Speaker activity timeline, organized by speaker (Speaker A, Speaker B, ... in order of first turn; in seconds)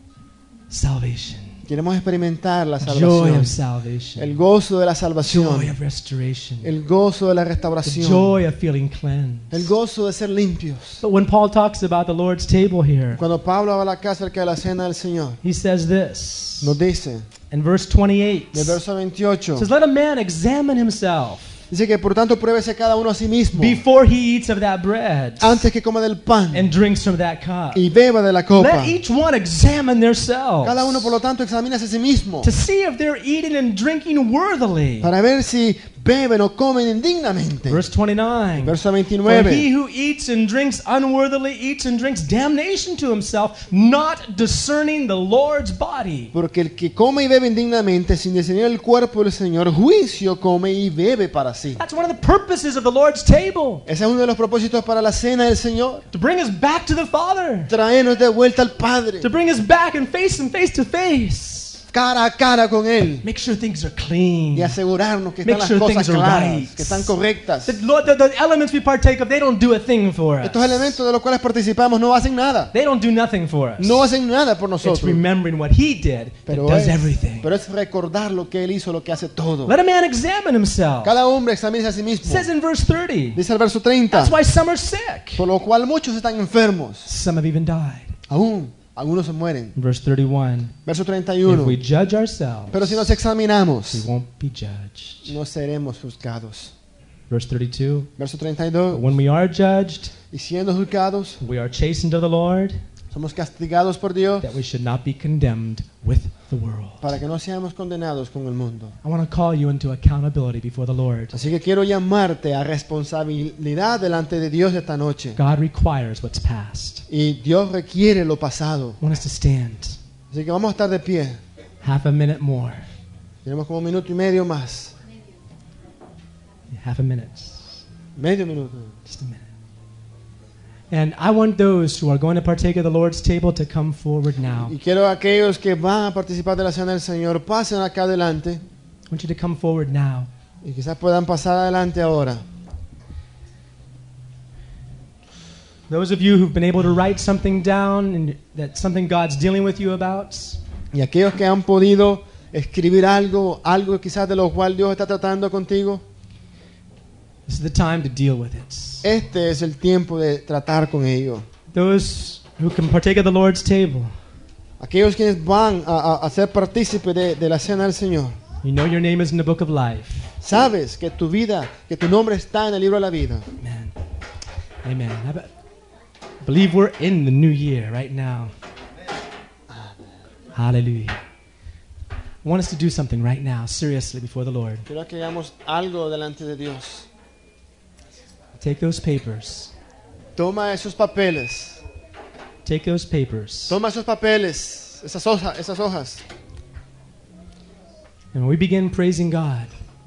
Speaker A: 0.7-1.6, 2.8-4.4, 5.2-6.7, 7.8-9.7, 11.0-13.2, 15.4-16.8, 17.5-18.8, 19.6-21.6, 23.5-25.6, 26.5-27.8, 28.6-31.2, 32.4-35.1, 37.7-46.3, 51.8-53.8, 56.1-57.7, 59.2-61.8, 63.2-64.8, 65.4-67.1, 67.7-71.0, 72.7-74.1, 74.8-77.5, 79.7-81.2, 82.2-83.4, 84.1-85.5, 87.0-88.1, 89.7-90.7, 91.4-93.2, 93.9-95.3, 97.3-98.1, 98.9-100.1, 101.4-102.8, 104.4-107.1, 109.0-111.4, 115.3-117.0, 119.0-120.0, 121.8-122.8, 126.7-127.8, 129.1-129.5, 130.9-134.7, 139.1-140.3, 145.9-150.6, 157.5-159.1, 161.7-164.1, 168.6-170.3, 173.6-173.9, 174.8-175.5, 176.4-178.5, 180.5-181.2, 182.4-184.8, 188.6-189.7, 192.6-193.8, 198.3-199.7
Speaker B: 1.7-3.5, 4.2-5.7, 6.6-8.3, 9.5-11.0, 13.2-15.4, 16.6-17.3, 18.5-19.7, 21.7-23.8, 25.4-26.7, 27.7-29.0, 30.6-32.5, 35.0-37.8, 38.6-39.7, 46.3-51.8, 53.9-56.1, 57.7-59.3, 61.9-63.2, 64.5-67.8, 70.4-72.7, 73.8-75.2, 76.5-79.7, 81.0-82.5, 83.3-84.4, 85.4-87.1, 88.3-89.7, 90.8-91.8, 92.7-94.0, 95.3-96.7, 98.2-99.0, 100.3-101.4, 103.1-104.5, 107.0-108.9, 111.3-115.4, 117.1-119.0, 120.3-121.4, 123.4-124.9, 128.2-128.9, 134.6-138.6, 140.6-142.4, 150.9-156.0, 159.0-161.4, 164.8-168.4, 170.4-173.5, 179.7-180.0, 184.8-187.1, 190.3-191.8, 193.7-196.2